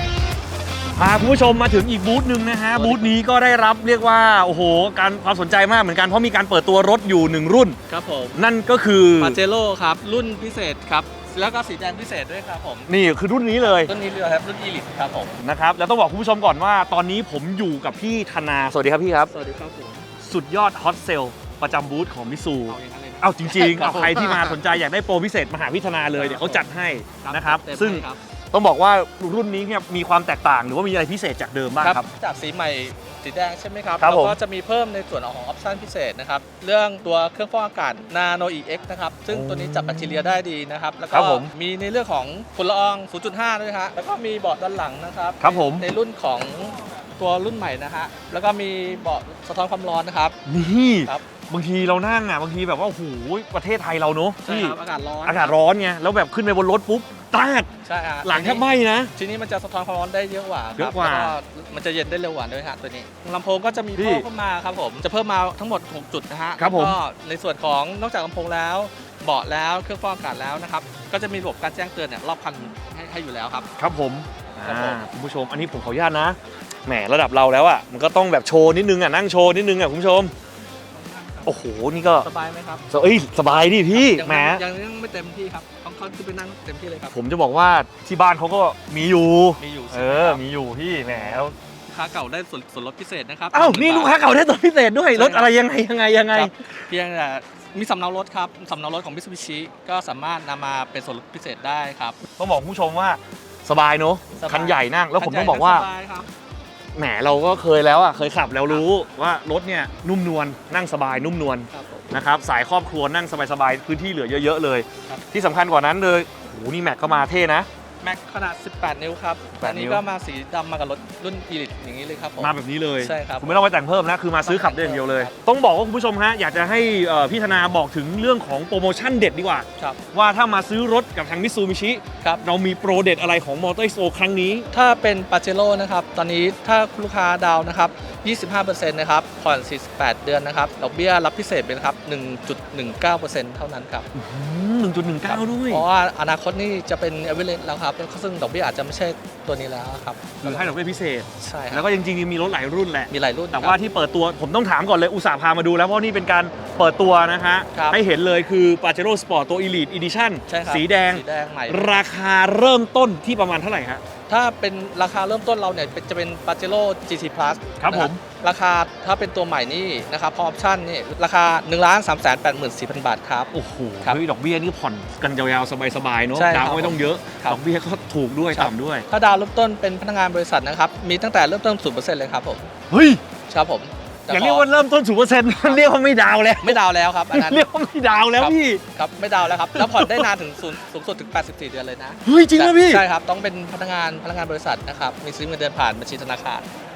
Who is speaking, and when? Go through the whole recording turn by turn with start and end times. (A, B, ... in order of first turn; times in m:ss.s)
0:01.0-0:07.8 A
0:02.8-0:03.1 B
0:07.9-0:08.4 B
0:08.4-0:09.4 A
0:09.2-0:12.9 B
0:12.9-0:13.9 A
0:13.6-0:15.3 B
0:15.4-0:19.3 A
0:19.3-0:20.1 B
0:20.2-0:32.1 A
0:22.7-0:24.6 B
0:26.2-0:28.2 B
0:31.8-0:50.4 B
0:34.0-0:34.4 A
0:39.3-0:40.2 A
0:41.1-0:41.5 A
0:45.4-0:45.9 A
0:50.4-0:57.7 A
0:54.4-0:55.5 B
0:57.8-0:58.6 B
0:58.2-0:59.1 A
0:59.2-1:13.7 B
1:00.8-1:01.4 A
1:04.0-1:04.3 A
1:06.6-1:07.0 A
1:13.8-1:20.3 A
1:14.6-1:15.0 B
1:20.9-1:21.6 B
1:21.4-1:22.3 A
1:22.2-1:22.8 B
1:22.9-1:24.6 A
1:23.9-1:27.2 B
1:27.1-1:31.6 A
1:29.6-1:30.4 B
1:31.1-1:34.1 B
1:33.5-1:36.6 A
1:35.1-1:35.5 B
1:36.3-1:42.2 B
1:42.4-1:45.9 A
1:44.4-1:46.3 B
1:46.9-1:57.7 A
1:51.7-1:52.1 B
1:58.0-2:03.6 B
1:59.6-2:00.0 A
2:02.4-2:14.7 A
2:04.4-2:05.3 B
2:14.7-2:24.1 B
2:24.1-2:25.8 A
2:25.2-2:30.8 B
2:30.4-2:44.0 A
2:31.4-2:31.8 B
2:33.1-2:33.8 B
2:37.7-2:38.0 B
2:40.5-2:41.9 B
2:44.3-2:54.2 B
2:47.8-2:48.2 A
2:53.5-2:59.1 A
2:56.3-2:57.6 B
2:58.5-3:02.7 B
3:02.9-3:03.2 A
3:03.5-3:04.7 B
3:04.3-3:06.8 A
3:06.6-3:07.7 B
3:07.3-3:08.8 A
3:08.4-3:16.7 B
3:09.8-3:10.3 A
3:12.2-3:13.0 A